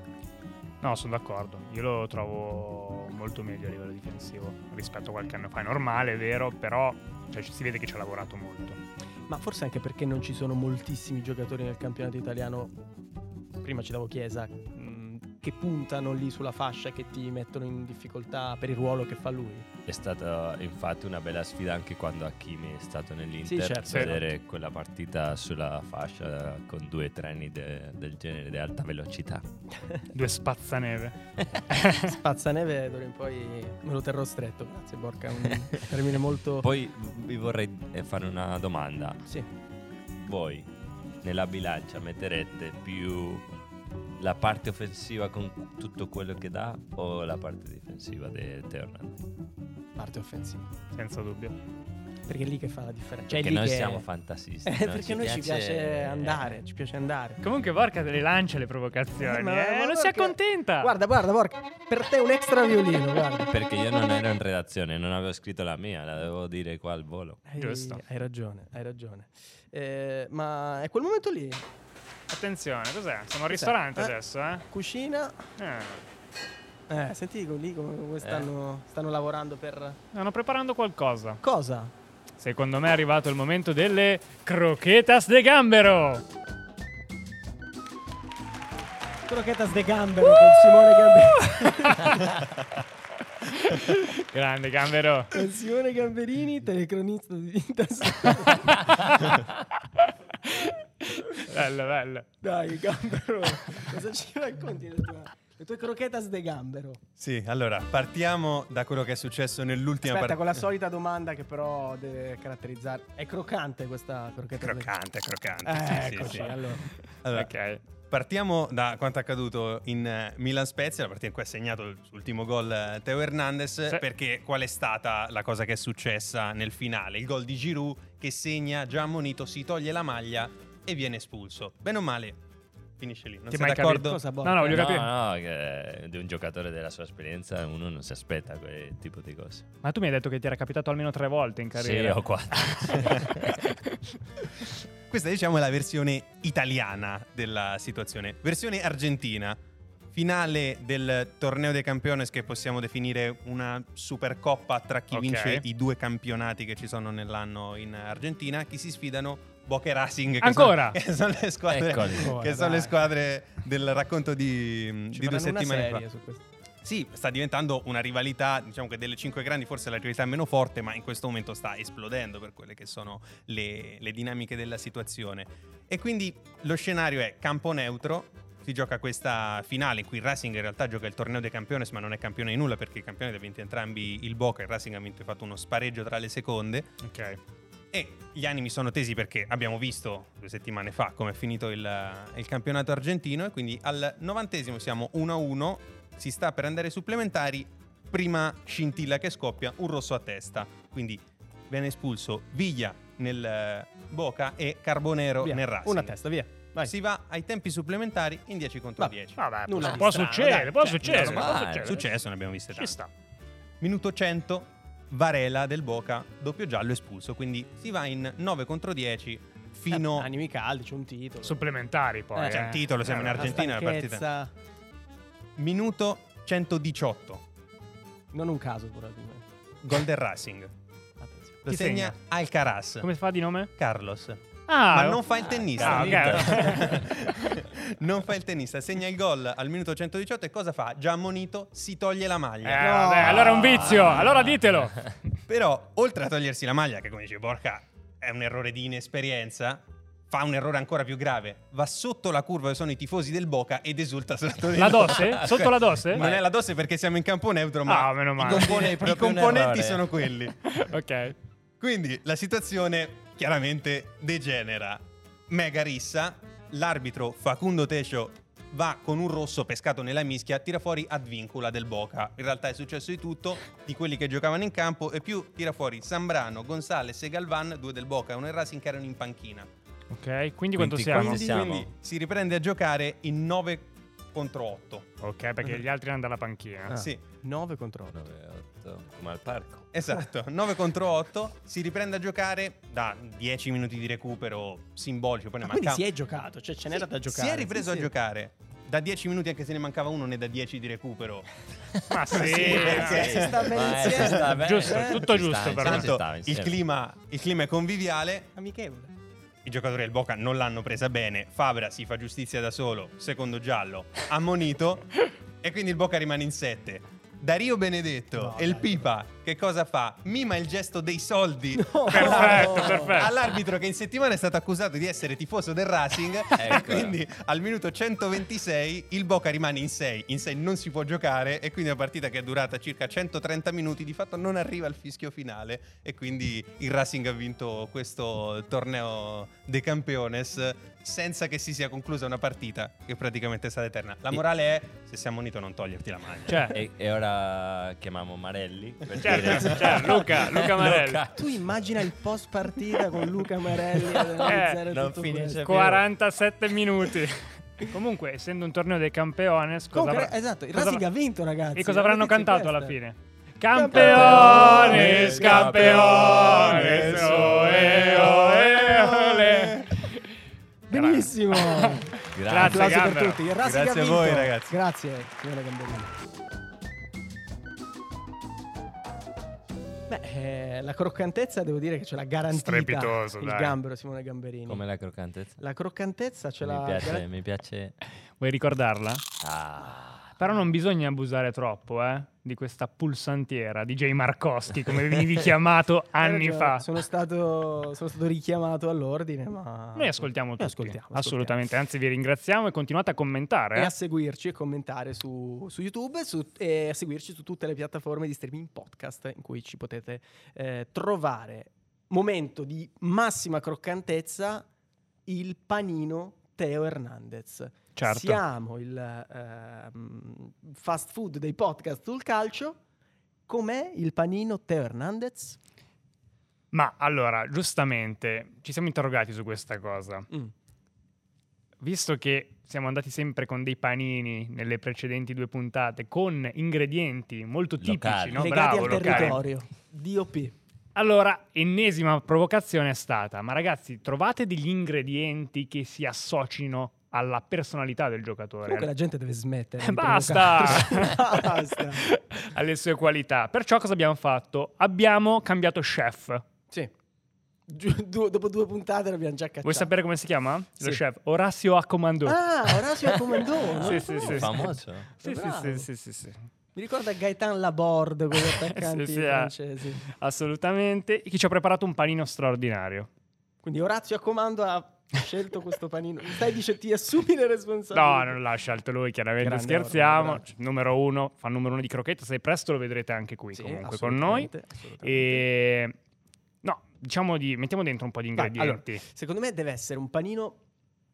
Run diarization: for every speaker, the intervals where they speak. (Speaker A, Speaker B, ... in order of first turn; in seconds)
Speaker A: 0.8-8.8, 30.1-31.2, 31.7-32.1, 50.9-51.5, 57.4-61.0, 67.6-68.0, 72.3-74.6, 75.6-76.0, 80.1-81.4, 82.4-86.2, 91.7-92.2, 93.4-95.4, 98.8-99.4, 100.0-102.3, 117.3-117.8, 133.5-135.1, 139.8-144.0, 155.1-155.6, 160.4-161.0, 187.0-187.4, 209.4-212.1, 212.7-213.1, 221.4-223.5, 231.7-232.2, 233.0-233.7, 234.7-235.2, 235.8-237.0, 242.6-245.1, 254.7-256.2, 257.9-258.9, 260.6-261.4, 280.1-281.4, 285.2-286.9, 302.1-303.4, 304.5-306.1, 322.1-323.3, 346.5-346.8, 349.2-351.2, 354.4-354.8, 355.6-361.0, 361.7-370.2, 370.9-373.4, 382.5-383.8, 388.4-389.2, 390.4-396.9, 399.9-403.9, 417.9-418.4, 426.7-430.3, 431.8-439.4, 440.9-448.9, 449.8-456.4, 459.6-462.4, 463.8-464.7, 465.2-466.4, 468.4-473.1, 477.9-484.5, 485.0-485.9, 486.6-489.0
Speaker B: 9.3-12.7, 13.6-19.6, 23.4-24.2, 31.9-36.7, 50.0-50.7, 52.2-54.0, 54.6-57.4, 59.2-63.5, 67.5-71.6, 73.5-75.5, 76.9-80.0, 81.4-81.9, 89.2-92.4, 95.3-99.1, 102.4-107.0, 110.0-114.9, 115.6-116.9, 133.9-134.8, 162.1-163.0, 165.1-166.4, 205.4-206.9, 209.0-211.5, 219.9-221.7, 222.3-224.5, 228.3-229.5, 231.2-231.6, 235.8-236.5, 242.8-243.9, 286.9-288.2, 295.6-298.1, 302.4-305.3, 308.5-309.1, 318.3-319.1, 321.7-323.3, 351.3-355.9, 359.9-363.0, 363.7-367.4, 370.9-376.1, 380.1-384.8, 385.6-387.2, 396.2-401.6, 403.7-414.7, 415.2-422.8, 423.5-425.6, 438.4-440.6, 448.6-452.1, 457.7-459.9, 462.2-464.7, 465.2-465.9, 466.7-470.0, 473.6-478.4, 479.4-480.5, 483.5-485.5, 488.4-490.6
Speaker C: 19.9-29.4, 36.6-39.2, 40.2-40.7, 41.2-43.5, 44.2-49.2, 53.3-56.6, 63.5-67.4, 78.2-78.5, 134.7-139.7, 141.8-143.6, 161.7-162.4, 211.0-212.0, 235.8-237.0, 243.2-244.6, 256.1-256.4, 258.4-260.1, 280.7-281.9, 288.1-289.9, 301.9-306.8, 326.5-327.1, 346.7-351.9, 354.1-356.0, 364.0-366.8, 372.2-373.1, 384.7-385.6, 386.6-387.9, 389.4-390.4, 437.8-439.4, 463.7-465.1
Speaker D: 107.2-110.4, 114.6-116.5, 117.2-117.5, 118.1-132.4, 133.0-134.2, 145.1-149.6, 150.1-166.0, 166.8-186.9, 187.9-206.2, 206.8-209.9, 211.3-213.0, 213.8-220.3, 222.5-224.2, 225.6-227.4, 229.8-230.7, 231.6-233.1, 233.8-243.1, 245.5-260.6, 261.8-279.7, 281.1-285.1, 286.9-287.2, 289.9-296.0, 297.2-301.5, 302.3-304.4, 305.8-308.5, 309.6-315.1, 315.6-346.7, 365.8-369.8, 373.5-374.7